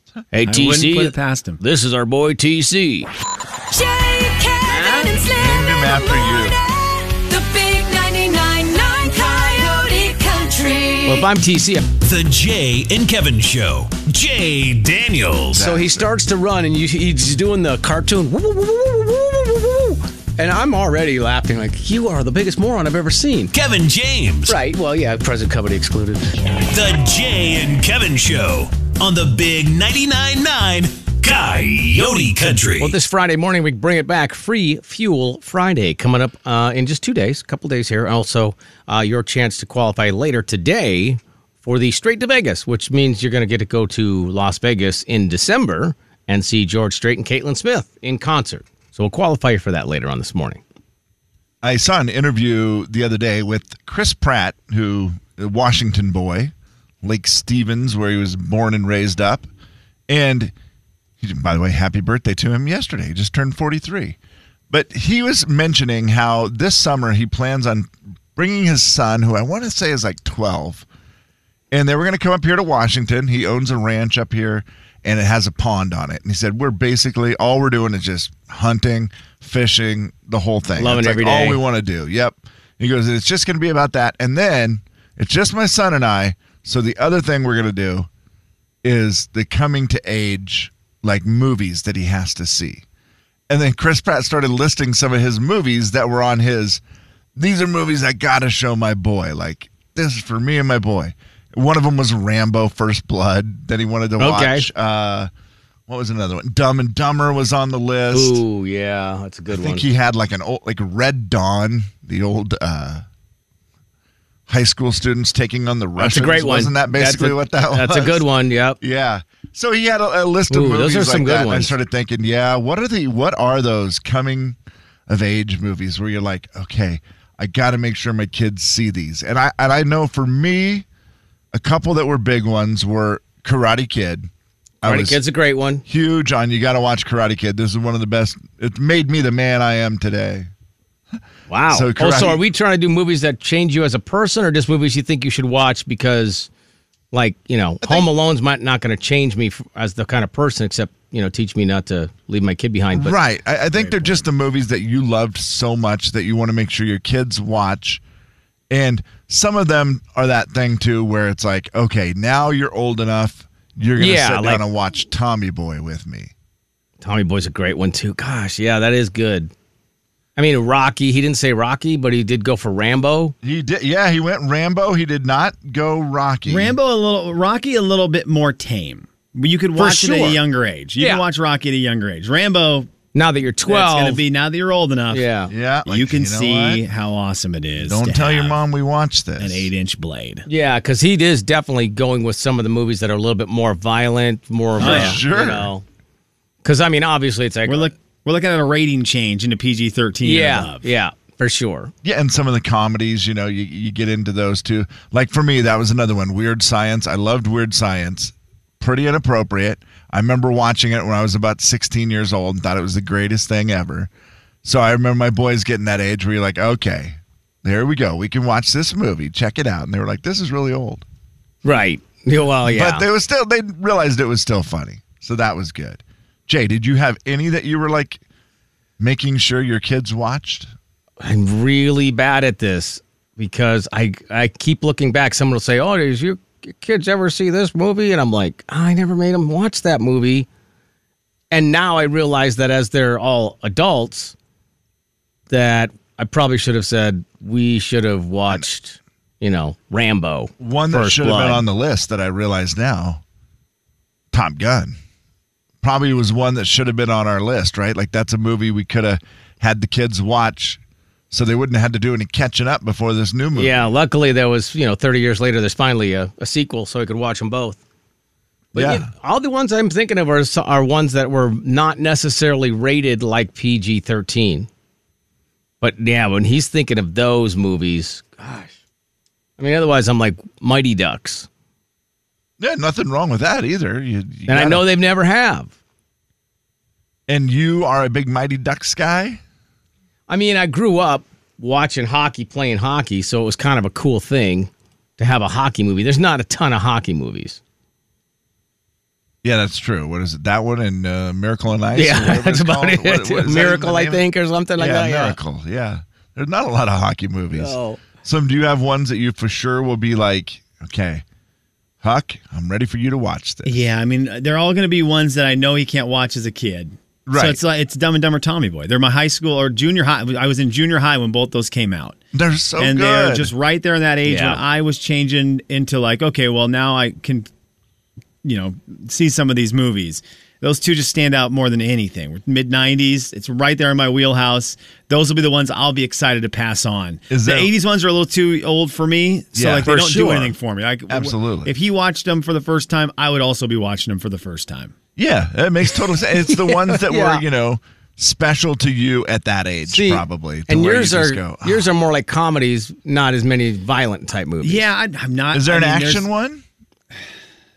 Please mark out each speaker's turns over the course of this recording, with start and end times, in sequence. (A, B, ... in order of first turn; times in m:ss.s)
0:00.3-0:03.1 A
0:00.4-0:01.6 B
0:03.7-0:11.3 C
0:04.7-0:05.1 A
0:05.4-0:06.6 D
0:11.0-0:11.9 A
0:12.0-0:15.6 E
0:15.5-0:16.1 D
0:15.6-0:23.5 A
0:23.5-0:24.6 E
0:24.5-0:26.6 A
0:26.6-0:33.0 E
0:32.8-0:50.6 A
0:51.6-0:59.5 D
1:00.1-1:00.5 D
1:01.2-1:04.2 D
1:04.7-1:10.8 D
1:11.7-1:28.1 D
1:20.8-1:21.6 A
1:28.8-1:32.8 D
1:33.5-1:36.8 D
1:37.4-1:45.3 D
1:44.2-1:44.7 A
1:45.9-1:48.4 D
1:48.1-1:49.9 A
1:49.5-1:53.0 D
1:54.5-1:58.2 D
1:56.0-1:58.8 A
1:58.8-2:04.6 D
2:00.5-2:01.8 A
2:05.1-2:10.8 D
2:11.5-2:14.3 D
2:14.8-2:15.2 D
2:14.8-2:15.8 A
2:15.8-2:20.5 D
2:21.5-2:26.5 A
2:21.7-2:22.4 D
2:27.1-2:33.2 A
2:27.8-2:28.1 D
2:32.9-2:38.0 D
2:33.8-2:34.1 B
2:38.7-2:46.3 D
2:44.0-2:44.6 A
2:47.0-2:49.5 A
2:50.4-2:53.3 A
2:53.4-2:56.8 D
2:56.5-3:02.9 B
2:59.8-3:00.4 A
2:59.8-3:00.4 D
3:01.0-3:01.2 A
3:03.1-3:04.2 A
3:03.7-3:05.2 B
3:05.1-3:05.5 A
3:05.5-3:06.8 D
3:05.8-3:08.6 B
3:07.8-3:09.7 D
3:09.4-3:10.4 B
3:10.5-3:15.8 A
3:14.8-3:15.7 D
3:14.8-3:15.2 B
3:16.6-3:17.9 A
3:17.7-3:20.8 B
3:20.2-3:21.9 A
3:22.0-3:34.1 D
3:34.6-3:41.0 D
3:41.6-3:43.0 A
3:42.6-3:48.2 D
3:49.0-3:50.7 D
3:51.2-4:00.5 A
4:01.5-4:04.3 A
4:05.5-4:11.6 A
4:10.6-4:13.2 D
4:14.3-4:15.0 D
4:15.8-4:20.8 D
4:21.3-4:23.9 D
4:23.5-4:27.8 A
4:28.7-4:29.1 D
4:28.7-4:34.7 A
4:35.8-4:38.7 A
4:39.6-4:41.5 A
4:42.6-4:44.8 D
4:44.5-4:45.7 A
4:47.3-4:49.4 D
4:50.3-4:57.6 A
4:59.4-5:04.2 D
5:01.9-5:05.4 A
5:04.8-5:11.2 D
5:07.5-5:08.0 A
5:12.0-5:13.8 D
5:13.6-5:22.2 B
5:17.2-5:17.6 D
5:22.3-5:23.5 D
5:22.8-5:27.5 B
5:24.2-5:24.6 A
5:28.4-5:44.9 B
5:37.3-5:37.7 D
5:39.5-5:39.9 D
5:39.8-5:40.5 A
5:41.1-5:41.7 D
5:45.2-5:51.9 D
5:46.4-5:47.4 A
5:49.9-5:54.8 A
5:54.6-5:56.3 B
5:55.5-5:56.6 D